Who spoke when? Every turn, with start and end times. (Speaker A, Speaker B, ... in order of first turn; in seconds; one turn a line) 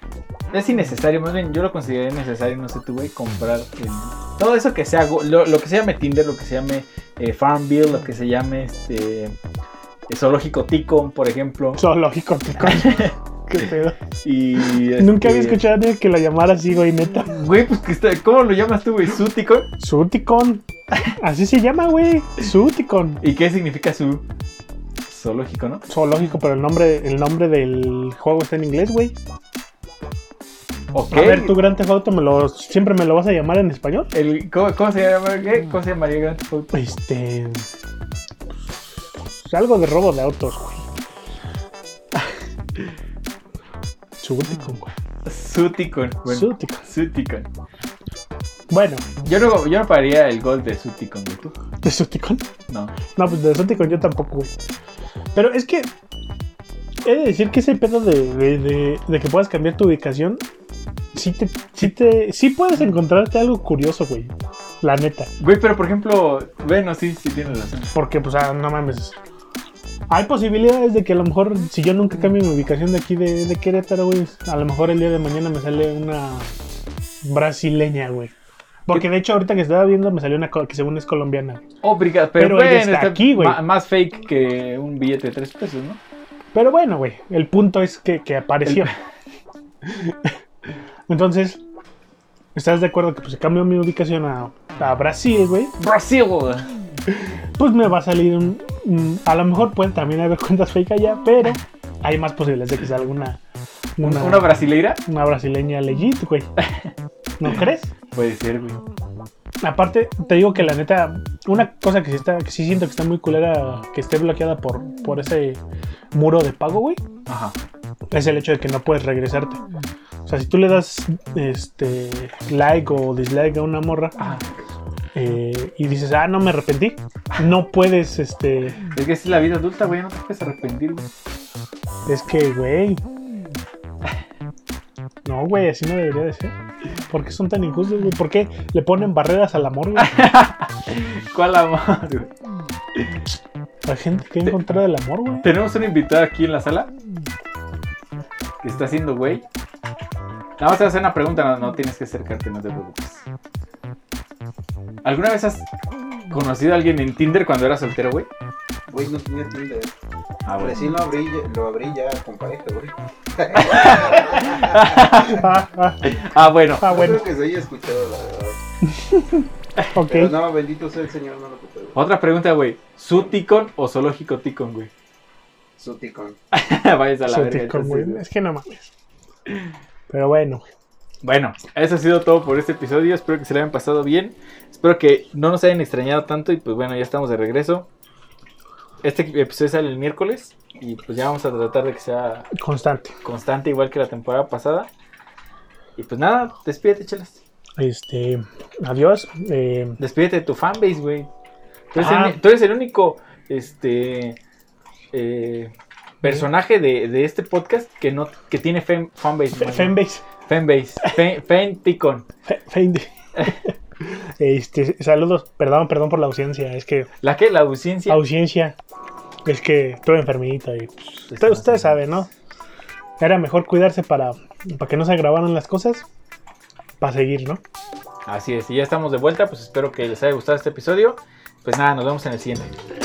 Speaker A: 0.5-9.4
Speaker A: 10.1-11.8
Speaker B: 11.8-14.0
Speaker A: 12.6-13.7
Speaker A: 14.2-15.6
Speaker B: 14.7-17.4
Speaker A: 17.3-19.7
Speaker B: 19.8-23.2
Speaker A: 23.2-24.2
Speaker A: 25.1-25.9
Speaker B: 25.9-29.2
Speaker A: 30.9-31.6
Speaker B: 31.1-34.1
Speaker A: 34.1-36.7
Speaker B: 36.7-37.7
Speaker B: 39.2-40.9
Speaker B: 44.2-44.9
Speaker A: 45.2-47.5
Speaker B: 46.3-46.9
Speaker B: 48.7-49.1
Speaker A: 49.2-51.6
Speaker B: 51.8-52.5
Speaker A: 52.7-53.0
Speaker B: 53.1-54.5
Speaker B: 55.4-55.9
Speaker B: 57.0-60.4
Speaker B: 61.1-65.3
Speaker A: 65.4-67.9
Speaker B: 68.0-69.2
Speaker B: 70.1-76.5
Speaker B: 77.2-78.3
Speaker B: 78.9-81.7
Speaker A: 81.8-86.0
Speaker B: 82.4-83.6
Speaker B: 86.5-88.9
Speaker A: 88.7-88.9
Speaker B: 89.8-90.3
Speaker B: 91.1-91.6
Speaker B: 92.5-95.8
Speaker A: 95.8-96.7
Speaker B: 97.6-103.4
Speaker B: 104.0-106.5
Speaker A: 104.0-105.0
Speaker A: 106.6-106.9
Speaker B: 107.4-107.9
Speaker A: 108.1-108.8
Speaker B: 109.6-115.6
Speaker B: 116.1-117.0
Speaker A: 117.3-117.6
Speaker B: 118.1-119.6
Speaker B: 120.3-124.2
Speaker A: 124.2-124.5
Speaker B: 125.2-128.8
Speaker A: 128.9-131.1
Speaker B: 132.1-133.0
Speaker B: 135.2-136.6
Speaker B: 137.1-140.2
Speaker A: 140.0-142.3
Speaker B: 143.8-145.5
Speaker A: 145.4-146.9
Speaker A: 148.6-149.5
Speaker A: 150.6-153.2
Speaker A: 155.0-155.7
Speaker A: 156.3-158.3
Speaker C: 158.9-159.9
Speaker A: 160.5-160.9
Speaker C: 160.6-165.0
Speaker A: 163.6-165.4
Speaker B: 165.0-166.1
Speaker A: 166.0-167.0
Speaker B: 166.8-167.2
Speaker C: 166.9-168.6
Speaker B: 168.8-170.3
Speaker C: 170.1-172.0
Speaker A: 171.9-174.9
Speaker C: 175.8-176.4
Speaker A: 176.5-178.2
Speaker B: 177.3-178.9
Speaker B: 180.1-180.7
Speaker A: 181.2-187.9
Speaker A: 189.0-192.5
Speaker B: 192.6-193.2
Speaker A: 193.2-194.9
Speaker A: 196.0-197.4
Speaker B: 197.8-200.0
Speaker A: 200.0-201.3
Speaker B: 201.9-202.4
Speaker A: 201.9-204.4
Speaker A: 205.1-212.3
Speaker B: 209.6-210.2
Speaker B: 212.5-217.1
Speaker A: 217.2-218.2
Speaker B: 218.1-218.8
Speaker B: 219.5-222.3
Speaker A: 221.3-222.1
Speaker B: 223.2-226.1
Speaker B: 227.0-227.6
Speaker A: 228.3-232.7